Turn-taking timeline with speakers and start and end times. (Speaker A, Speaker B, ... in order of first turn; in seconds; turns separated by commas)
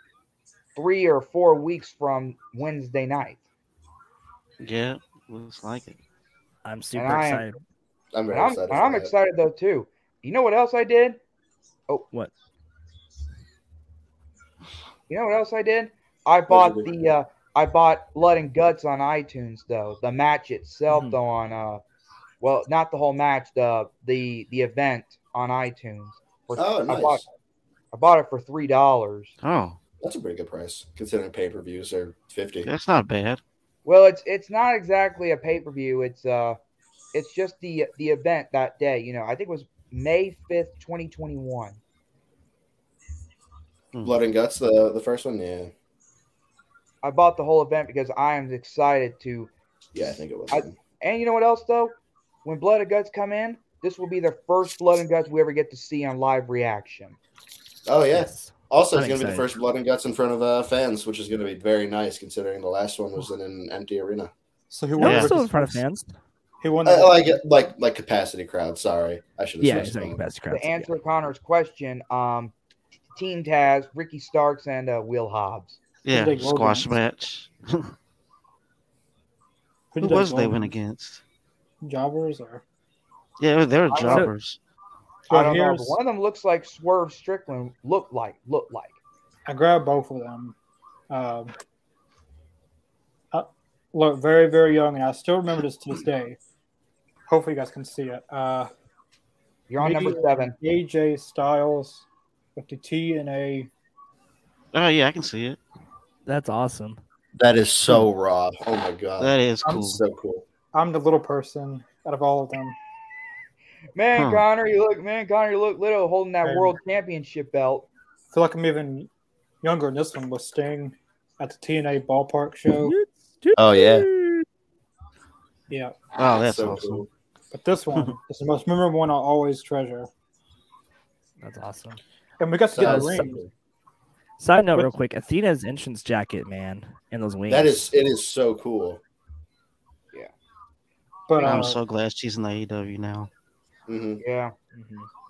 Speaker A: 0.8-3.4, Speaker B: 4.6-6.0, Speaker C: 6.6-7.6, Speaker A: 6.9-7.5, Speaker D: 8.1-9.1, Speaker A: 8.3-11.2, Speaker A: 15.1-21.8, Speaker D: 16.5-16.9, Speaker C: 20.9-21.2, Speaker A: 22.4-27.2, Speaker D: 26.6-27.2, Speaker A: 27.9-29.3, Speaker B: 29.4-29.8, Speaker D: 30.0-32.7, Speaker B: 32.6-33.4, Speaker A: 33.8-36.6, Speaker A: 37.1-41.8, Speaker D: 44.0-45.7, Speaker A: 47.0-49.5, Speaker D: 49.9-50.8, Speaker A: 50.5-57.2, Speaker D: 57.9-64.3, Speaker C: 58.1-59.5, Speaker E: 64.7-65.8, Speaker C: 65.0-66.1, Speaker B: 65.0-65.3, Speaker E: 66.6-67.4, Speaker D: 66.8-70.2, Speaker C: 69.6-70.9, Speaker A: 70.5-72.5, Speaker A: 73.2-75.8, Speaker B: 76.0-77.9, Speaker E: 76.1-76.9, Speaker E: 79.9-80.7, Speaker B: 80.0-81.2, Speaker E: 81.8-82.6, Speaker B: 83.4-84.6, Speaker A: 83.9-84.3, Speaker E: 85.3-86.0, Speaker A: 85.3-89.0, Speaker E: 89.5-90.5, Speaker E: 91.1-91.5, Speaker E: 93.3-96.4, Speaker E: 97.3-98.7, Speaker A: 99.7-100.5, Speaker E: 99.8-103.7, Speaker B: 104.7-105.6, Speaker C: 106.2-107.0, Speaker D: 107.4-110.4, Speaker B: 109.2-110.0, Speaker E: 110.7-112.8, Speaker A: 113.9-117.9, Speaker B: 114.1-114.4, Speaker E: 116.4-116.8, Speaker E: 118.3-119.1, Speaker E: 119.6-122.9, Speaker C: 122.8-124.4, Speaker D: 123.5-124.1, Speaker E: 125.7-125.9, Speaker B: 126.2-127.0, Speaker D: 126.2-127.1, Speaker E: 127.5-130.1, Speaker C: 131.4-132.0, Speaker E: 132.4-133.4, Speaker D: 132.7-133.5, Speaker C: 132.8-133.3, Speaker C: 134.4-137.9, Speaker D: 137.5-139.0, Speaker E: 141.3-141.8, Speaker B: 141.4-143.3, Speaker D: 143.9-144.2, Speaker A: 144.2-144.5, Speaker C: 144.7-145.1